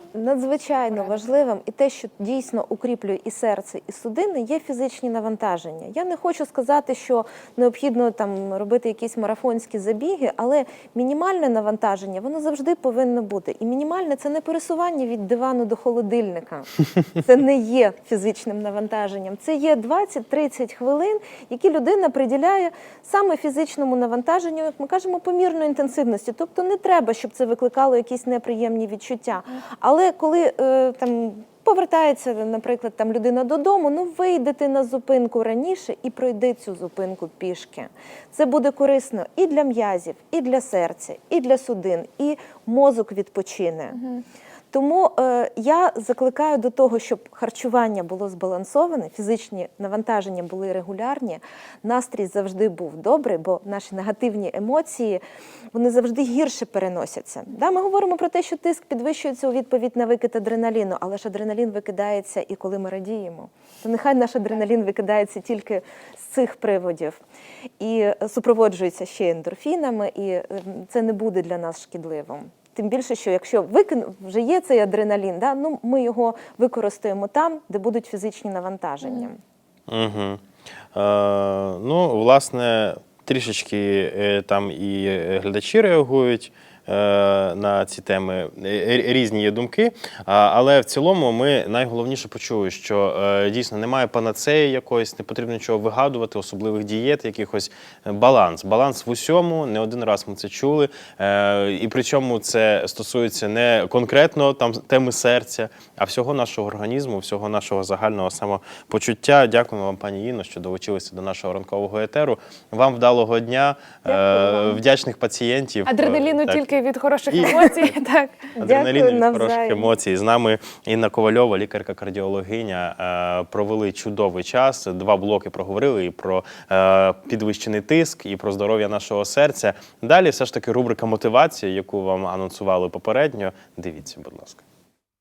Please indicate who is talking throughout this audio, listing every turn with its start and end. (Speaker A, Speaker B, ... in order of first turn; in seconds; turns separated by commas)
Speaker A: 0.1-44.0, Speaker B: 0.9-1.2, Speaker B: 43.9-44.2, Speaker A: 44.7-55.2, Speaker A: 55.7-67.2, Speaker A: 67.8-79.4, Speaker C: 79.9-80.4, Speaker C: 80.9-116.7, Speaker A: 114.1-114.8, Speaker B: 115.9-118.5, Speaker C: 117.3-117.9, Speaker C: 118.5-134.6, Speaker A: 118.6-119.9